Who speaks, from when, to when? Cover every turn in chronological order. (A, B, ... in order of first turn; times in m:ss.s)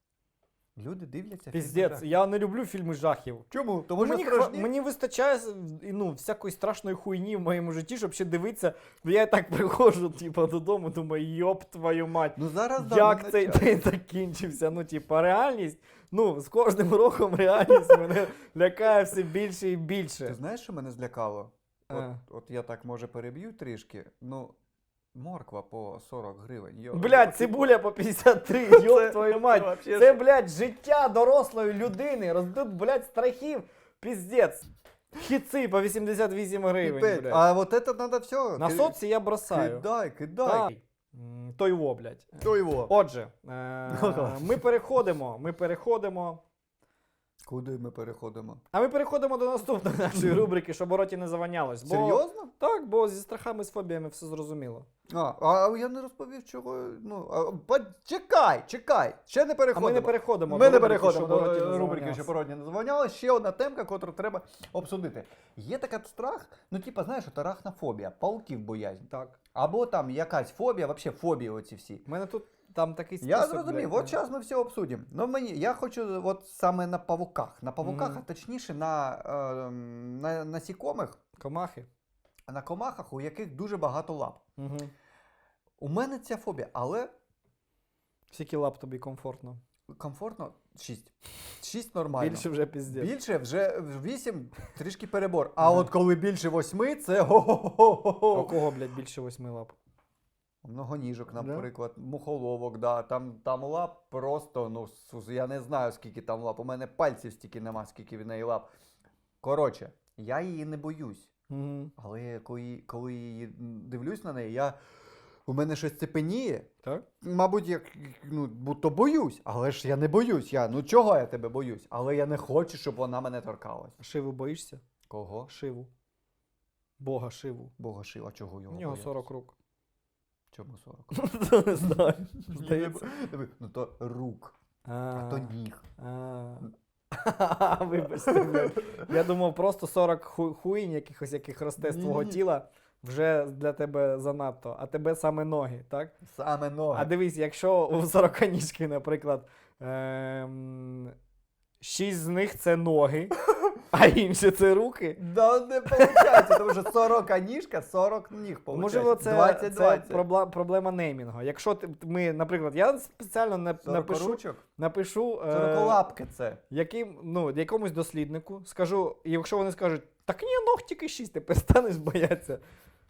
0:00.8-0:02.1 A
0:01.5-0:20.4 B
0:03.5-0:04.7 A
0:12.4-0:13.7 A
0:20.2-0:24.6 A
0:21.9-0:22.2 B
0:25.1-0:27.7 A
0:26.9-0:37.4 B
0:28.6-0:30.2 A
0:36.8-0:39.0 A
0:38.6-0:39.8 B
0:39.5-0:40.7 A
0:40.4-0:46.4 B
0:42.4-0:42.9 A
0:43.9-0:44.6 A
0:47.4-0:48.6 A
0:48.7-0:54.9 B
0:50.2-0:50.4 A
0:51.8-0:52.5 A
0:55.1-1:12.0 A
0:59.7-1:02.3 B
1:09.1-1:09.4 B
1:12.0-1:14.2 B
1:13.2-1:21.2 A
1:17.8-1:18.2 B
1:21.4-1:21.9 B
1:22.5-1:24.4 A
1:24.6-1:24.9 B
1:25.8-1:27.1 A
1:28.3-1:29.6 B
1:29.9-1:38.6 A
1:32.2-1:33.1 B
1:35.6-1:35.9 B
1:38.3-1:39.7 B
1:40.6-1:48.7 A
1:41.3-1:41.6 B
1:49.4-1:51.3 A
1:51.5-1:51.9 B
1:52.0-1:54.8 A
1:55.4-1:56.7 A
1:57.2-2:04.0 A
2:04.0-2:04.8 B
2:05.1-2:05.5 A
2:05.5-2:05.9 B
2:07.0-2:07.7 B
2:07.8-2:09.2 A
2:08.7-2:09.5 B
2:10.5-2:11.1 A
2:11.1-2:13.1 B
2:11.8-2:14.6 A
2:14.8-2:26.1 B
2:15.1-2:15.8 A
2:18.2-2:19.0 A
2:21.8-2:22.4 A
2:26.2-2:27.1 A
2:26.9-2:31.1 B
2:31.8-2:33.4 B
2:33.9-2:35.2 B
2:35.2-2:40.2 A
2:35.9-2:36.6 B
2:38.7-2:46.0 B
2:43.8-2:44.6 A
2:45.5-2:46.6 A
2:46.7-2:52.6 B